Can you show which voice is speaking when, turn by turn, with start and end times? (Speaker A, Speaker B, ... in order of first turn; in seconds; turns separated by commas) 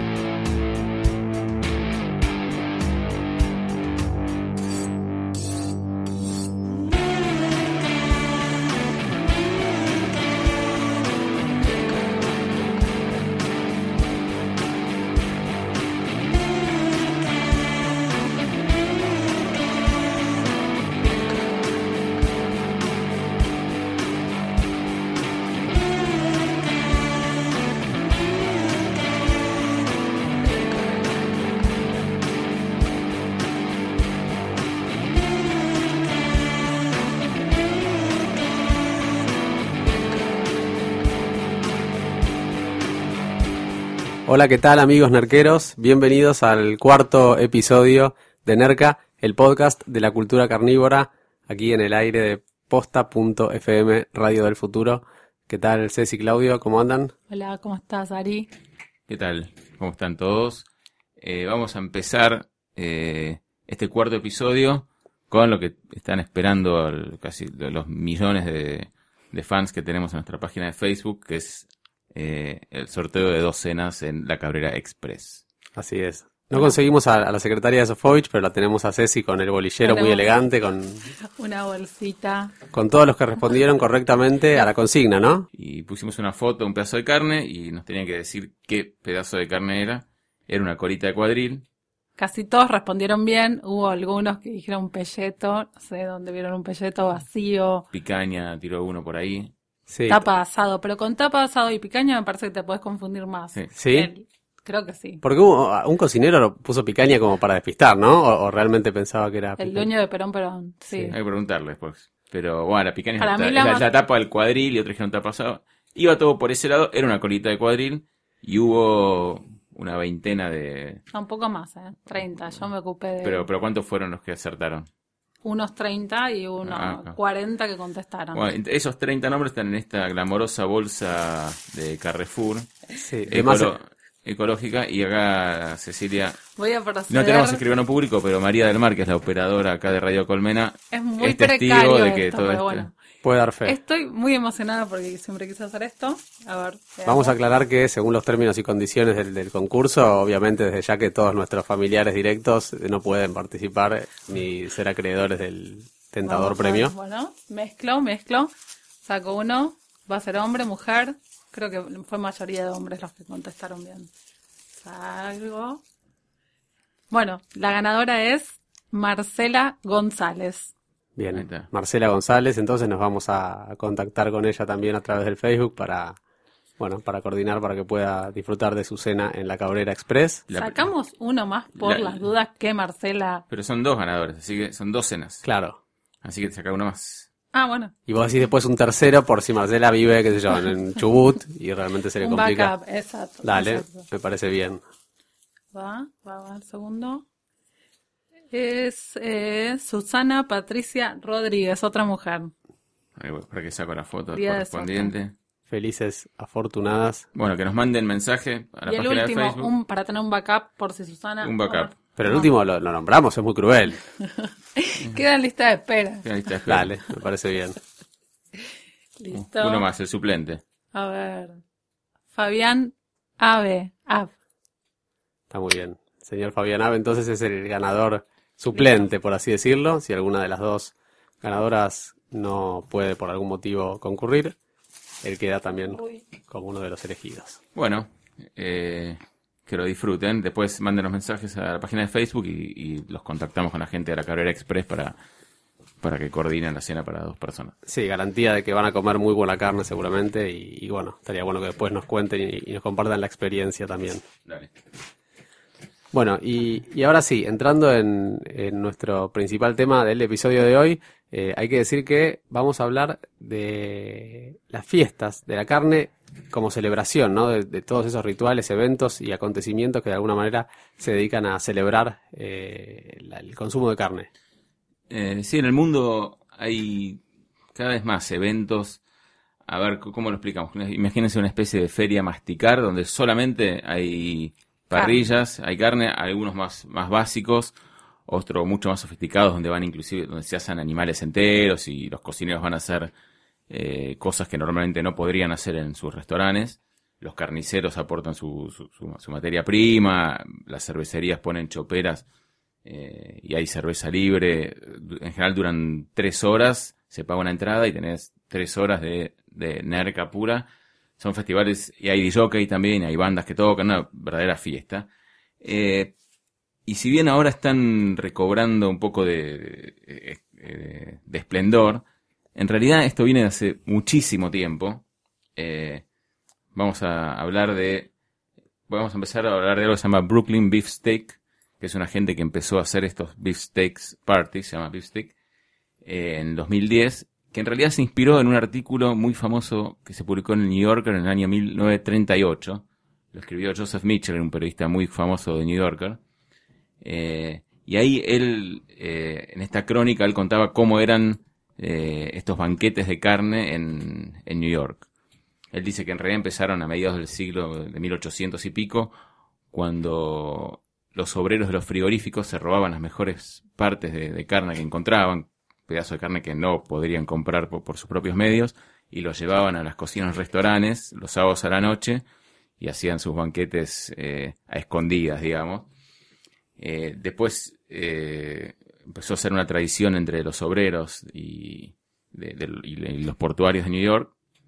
Speaker A: 44.3-57.1, Speaker B: 57.3-58.5, Speaker C: 59.1-60.7, Speaker C: 61.2-75.4, Speaker A: 75.8-81.0, Speaker B: 79.8-80.3, Speaker B: 81.2-82.5, Speaker A: 82.7-85.5, Speaker C: 85.6-91.6, Speaker B: 92.2-97.9, Speaker C: 97.9-99.5, Speaker A: 99.9-100.2, Speaker B: 100.1-105.2, Speaker A: 103.8-104.1, Speaker A: 105.2-109.9, Speaker B: 109.6-111.2, Speaker C: 111.1-121.0, Speaker B: 113.2-113.9, Speaker B: 121.1-123.5, Speaker C: 123.2-124.9, Speaker B: 125.4-128.4, Speaker C: 126.7-127.2, Speaker C: 128.3-136.4, Speaker A: 133.0-133.7, Speaker B: 136.6-137.6, Speaker C: 137.1-142.9, Speaker B: 140.9-142.9, Speaker A: 143.2-143.8, Speaker B: 143.7-147.3, Speaker A: 147.1-156.9, Speaker B: 156.2-158.5, Speaker B: 159.0-164.1, Speaker B: 164.8-165.8, Speaker B: 167.1-170.7, Speaker A: 171.2-176.2, Speaker C: 171.3-171.7, Speaker A: 176.8-180.4, Speaker C: 180.5-180.9, Speaker B: 180.6-183.4, Speaker C: 181.8-182.2, Speaker C: 183.5-185.5, Speaker A: 185.4-185.8, Speaker C: 186.2-187.3, Speaker B: 187.5-187.9, Speaker A: 188.1-192.7, Speaker B: 192.2-194.1, Speaker A: 193.4-194.8, Speaker B: 195.7-197.2, Speaker B: 198.5-202.5, Speaker C: 203.2-205.3, Speaker B: 204.3-205.1, Speaker A: 205.7-207.3, Speaker C: 207.3-209.7, Speaker B: 208.9-212.5, Speaker C: 211.4-211.9, Speaker A: 212.2-214.0, Speaker B: 214.2-216.3, Speaker C: 216.2-216.9, Speaker A: 216.7-217.8, Speaker B: 219.2-219.9, Speaker C: 219.3-220.6, Speaker B: 220.9-221.6, Speaker B: 222.3-224.3, Speaker A: 225.5-234.6, Speaker A: 235.2-237.6, Speaker C: 237.8-245.2, Speaker C: 246.0-247.7, Speaker A: 247.9-254.2, Speaker A: 256.1-274.3, Speaker C: 275.1-277.2, Speaker C: 277.8-279.0, Speaker C: 279.7-287.7, Speaker B: 284.9-285.2, Speaker C: 288.3-293.1, Speaker C: 293.7-302.3, Speaker C: 302.9-310.7, Speaker C: 311.2-315.1, Speaker C: 315.6-316.1, Speaker C: 316.9-322.0, Speaker C: 322.6-325.0, Speaker C: 325.6-326.0, Speaker C: 326.7-328.1, Speaker C: 328.9-335.3, Speaker C: 336.0-346.2, Speaker C: 347.0-355.1, Speaker C: 355.7-359.1, Speaker C: 359.7-372.2, Speaker C: 372.8-375.9, Speaker C: 376.8-384.3